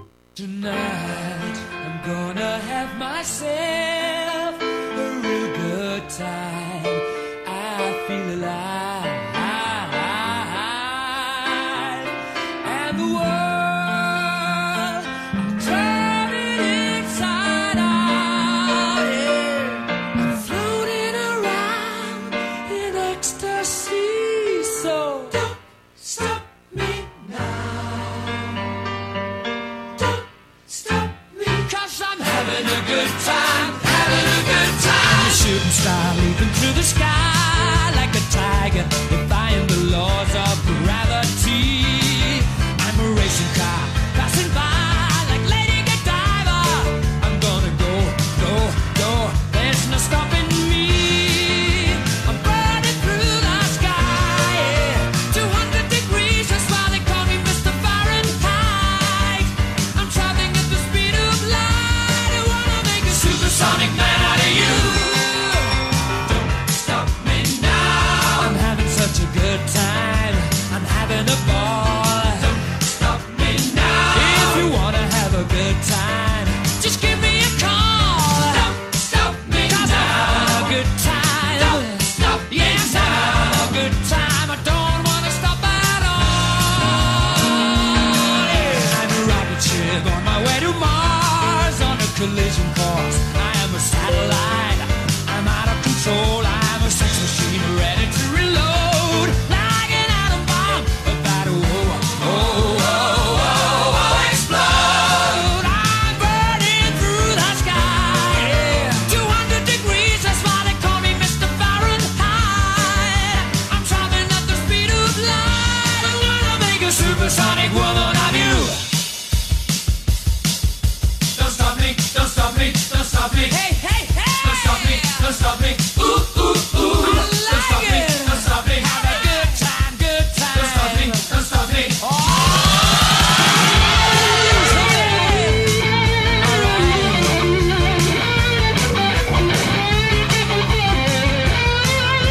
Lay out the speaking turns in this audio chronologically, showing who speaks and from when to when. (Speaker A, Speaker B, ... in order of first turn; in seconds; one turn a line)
Speaker A: 0.4-28.5
Speaker A: 30.7-118.9
Speaker A: 121.3-133.2
Speaker A: 134.1-135.8
Speaker A: 136.4-137.5